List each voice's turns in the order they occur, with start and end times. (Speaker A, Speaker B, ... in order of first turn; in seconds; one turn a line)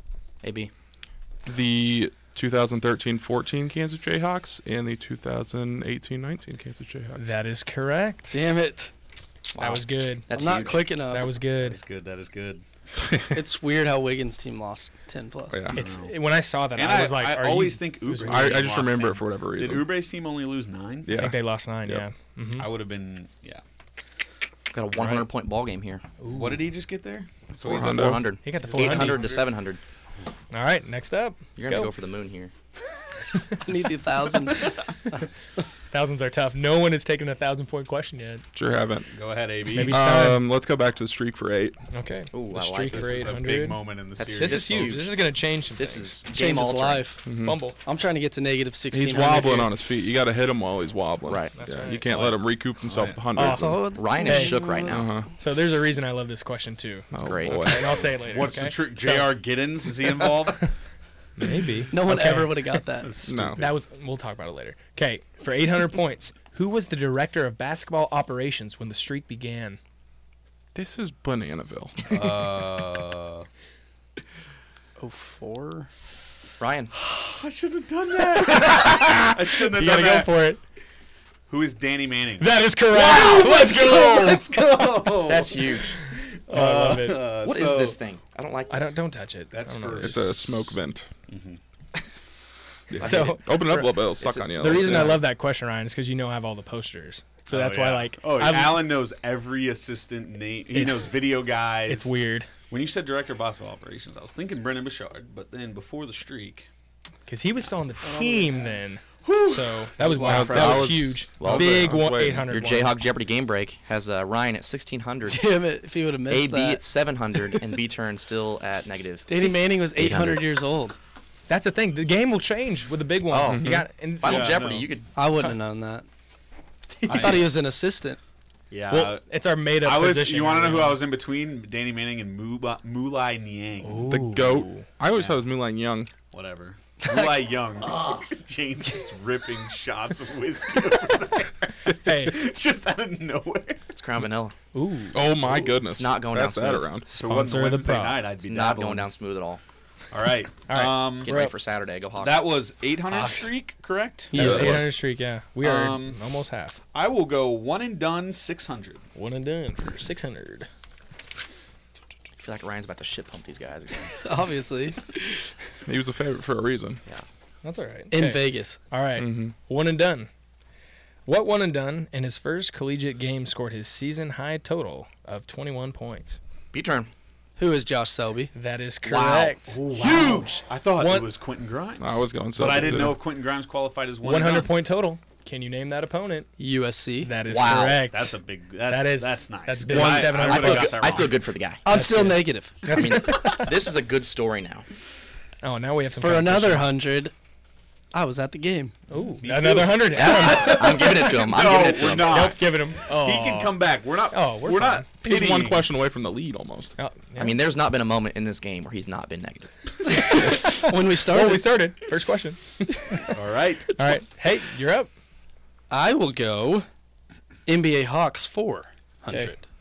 Speaker A: 0.4-0.7
Speaker B: 1.5-7.3
Speaker C: 7.2-8.4
Speaker D: 8.3-8.9
Speaker A: 9.5-10.9
Speaker C: 9.6-10.3
Speaker D: 10.3-11.3
Speaker C: 11.0-11.8
Speaker E: 11.6-12.6
Speaker B: 13.1-13.3
Speaker D: 13.3-15.6
Speaker B: 15.5-15.8
Speaker E: 15.7-16.2
Speaker C: 15.7-18.6
Speaker E: 16.8-21.2
Speaker B: 18.2-19.9
Speaker B: 21.1-22.1
Speaker C: 21.1-22.7
Speaker E: 22.6-23.6
Speaker A: 24.7-26.1
Speaker C: 25.0-25.3
Speaker C: 26.2-26.7
Speaker E: 26.3-29.5
Speaker B: 27.6-28.4
Speaker A: 27.8-29.8
Speaker C: 28.3-29.3
Speaker C: 30.5-31.9
Speaker A: 31.6-32.5
Speaker C: 33.4-33.6
Speaker D: 33.6-35.2
Speaker C: 34.6-35.1
Speaker C: 35.9-38.4
Speaker B: 38.5-39.1
Speaker E: 39.1-40.0
Speaker C: 39.7-40.5
Speaker B: 39.7-41.8
Speaker C: 41.9-43.9
Speaker A: 42.3-43.4
Speaker E: 42.9-45.1
Speaker A: 44.2-47.1
Speaker C: 44.4-46.2
Speaker D: 46.3-49.7
Speaker B: 47.2-47.7
Speaker C: 47.4-47.8
Speaker B: 48.9-53.9
Speaker A: 51.3-51.5
Speaker C: 51.6-52.5
Speaker E: 52.9-53.2
Speaker C: 53.3-54.7
Speaker D: 53.4-55.2
Speaker A: 53.9-55.1
Speaker B: 54.9-55.3
Speaker C: 55.4-60.3
Speaker B: 57.1-58.0
Speaker A: 57.3-57.6
Speaker E: 58.0-60.7
Speaker C: 61.4-62.8
Speaker D: 61.9-63.1
Speaker E: 63.0-63.6
Speaker B: 63.2-63.6
Speaker C: 63.6-69.8
Speaker B: 70.8-72.6
Speaker E: 72.1-73.5
Speaker D: 75.0-75.9
Speaker A: 76.6-76.9
Speaker E: 76.9-80.3
Speaker C: 78.5-80.6
Speaker E: 81.5-88.0
Speaker C: 82.4-84.4
Speaker A: 85.2-86.0
Speaker C: 86.5-87.3
Speaker A: 87.4-89.0
Speaker C: 88.7-90.2
Speaker E: 89.5-90.8
Speaker B: 90.0-91.1
Speaker E: 91.3-91.6
Speaker B: 92.9-95.2
Speaker A: 93.0-93.5
Speaker C: 93.0-98.9
Speaker A: 94.2-95.2
Speaker E: 97.5-102.1
Speaker C: 100.7-101.2
Speaker C: 101.9-102.5
Speaker E: 102.7-106.7
Speaker C: 107.3-113.0
Speaker D: 108.0-108.8
Speaker E: 109.2-112.0
Speaker B: 110.2-112.5
Speaker A: 111.4-111.9
Speaker A: 112.5-115.5
Speaker D: 115.3-116.8
Speaker A: 116.3-120.5
Speaker D: 119.3-121.0
Speaker C: 121.5-124.6
Speaker A: 123.3-125.1
Speaker B: 123.5-123.9
Speaker E: 124.2-124.9
Speaker D: 125.2-126.1
Speaker D: 127.0-128.2
Speaker E: 127.1-127.5
Speaker E: 128.7-129.2
Speaker C: 128.9-131.0
Speaker E: 129.8-134.1
Speaker C: 133.8-134.9
Speaker B: 134.1-136.1
Speaker E: 135.1-135.6
Speaker E: 136.3-143.8
Speaker C: 141.9-142.4
Speaker A: 144.0-144.5
Speaker C: 144.7-145.5
Speaker B: 145.1-147.1
Speaker A: 146.0-146.9
Speaker C: 147.1-148.2
Speaker E: 147.1-149.1
Speaker A: 148.4-149.6
Speaker E: 150.1-151.3
Speaker C: 150.7-151.6
Speaker A: 151.2-152.5
Speaker E: 152.2-154.6
Speaker C: 153.1-153.5
Speaker D: 154.3-154.8
Speaker C: 154.3-156.8
Speaker B: 154.3-154.9
Speaker E: 155.6-156.2
Speaker E: 156.9-159.1
Speaker C: 159.2-160.7
Speaker A: 162.4-164.2
Speaker D: 164.2-165.4
Speaker B: 165.9-167.0
Speaker C: 167.6-170.3
Speaker D: 168.1-168.8
Speaker B: 169.2-169.6
Speaker C: 171.3-176.4
Speaker A: 176.7-177.1
Speaker D: 177.6-178.5
Speaker C: 178.5-181.3
Speaker A: 179.1-179.6
Speaker E: 179.7-184.7
Speaker B: 182.0-183.2
Speaker C: 182.6-183.1
Speaker C: 184.2-186.5
Speaker D: 186.6-187.3
Speaker C: 187.2-191.2
Speaker A: 187.5-188.1
Speaker E: 188.1-191.4
Speaker A: 189.9-192.2
Speaker D: 189.9-190.2
Speaker D: 191.8-193.0
Speaker C: 191.9-193.8
Speaker A: 192.9-194.9
Speaker C: 195.6-196.9
Speaker D: 196.2-197.3
Speaker D: 198.1-198.9
Speaker C: 199.1-203.8
Speaker E: 199.1-205.9
Speaker A: 200.1-202.5
Speaker C: 204.3-205.1
Speaker B: 205.2-206.9
Speaker C: 207.0-207.6
Speaker A: 207.4-209.8
Speaker D: 210.1-211.8
Speaker C: 210.1-213.3
Speaker E: 213.3-214.0
Speaker C: 213.9-215.1
Speaker D: 215.9-216.9
Speaker D: 217.7-219.6
Speaker C: 219.3-219.6